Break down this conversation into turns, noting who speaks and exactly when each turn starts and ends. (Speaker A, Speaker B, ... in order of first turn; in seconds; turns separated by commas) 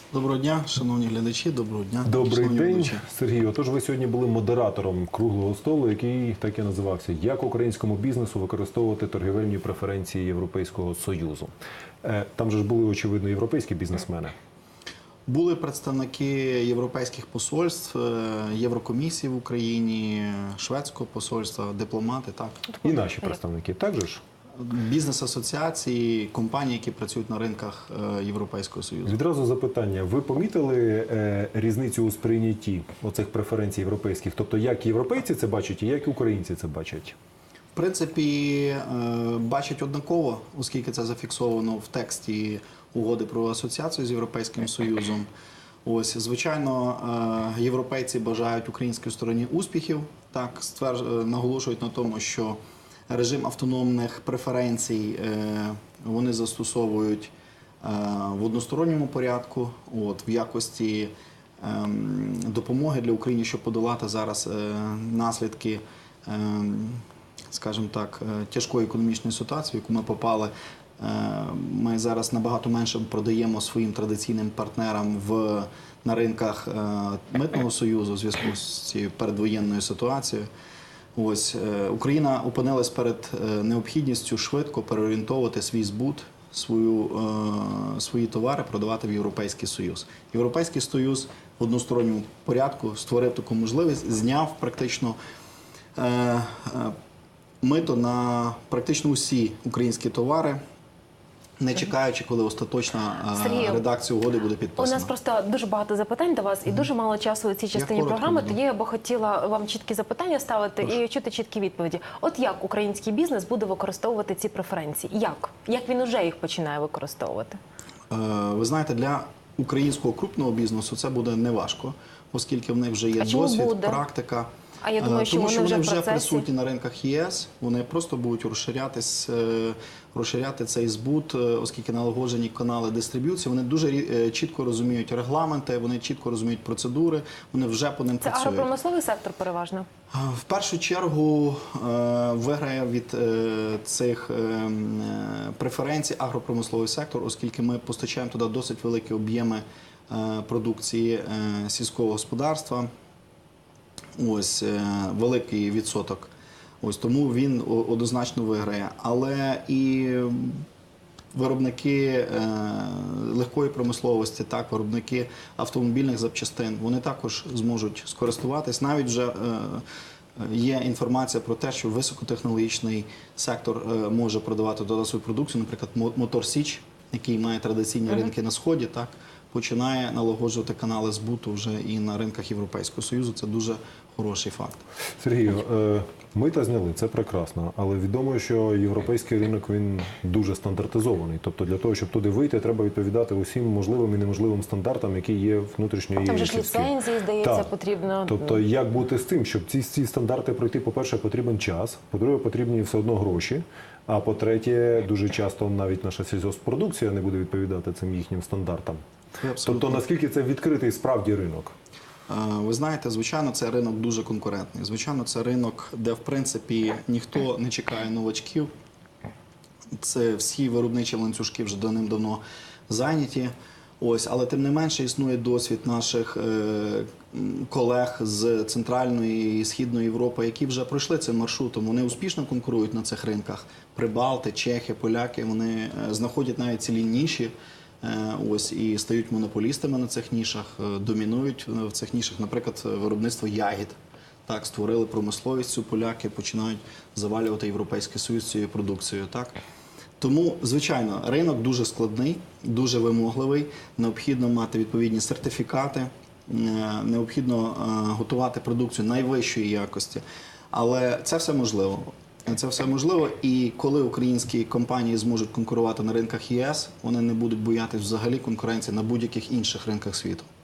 Speaker A: 0.1-3.0, Speaker B: 2.1-11.5, Speaker B: 12.0-14.3, Speaker A: 15.3-22.6, Speaker C: 22.7-23.3, Speaker B: 22.8-24.2, Speaker A: 24.6-29.1, Speaker B: 29.1-37.2, Speaker A: 37.8-45.3, Speaker A: 45.9-52.6, Speaker A: 53.1-80.5, Speaker A: 81.2-95.2, Speaker A: 96.0-97.0, Speaker A: 97.6-100.6, Speaker A: 101.6-105.1, Speaker C: 103.3-103.8, Speaker C: 104.8-117.6, Speaker A: 107.7-108.6, Speaker A: 118.1-138.7, Speaker C: 123.2-124.0, Speaker C: 124.8-126.5, Speaker C: 138.2-139.9, Speaker A: 140.1-152.9, Speaker A: 154.2-156.3, Speaker A: 156.8-160.7, Speaker A: 161.3-169.8, Speaker A: 170.4-184.8, Speaker B: 185.2-197.7, Speaker C: 196.2-198.6, Speaker B: 198.3-209.0, Speaker A: 209.4-210.0, Speaker B: 209.6-211.7, Speaker A: 212.3-218.7, Speaker A: 219.9-249.6, Speaker A: 250.2-270.5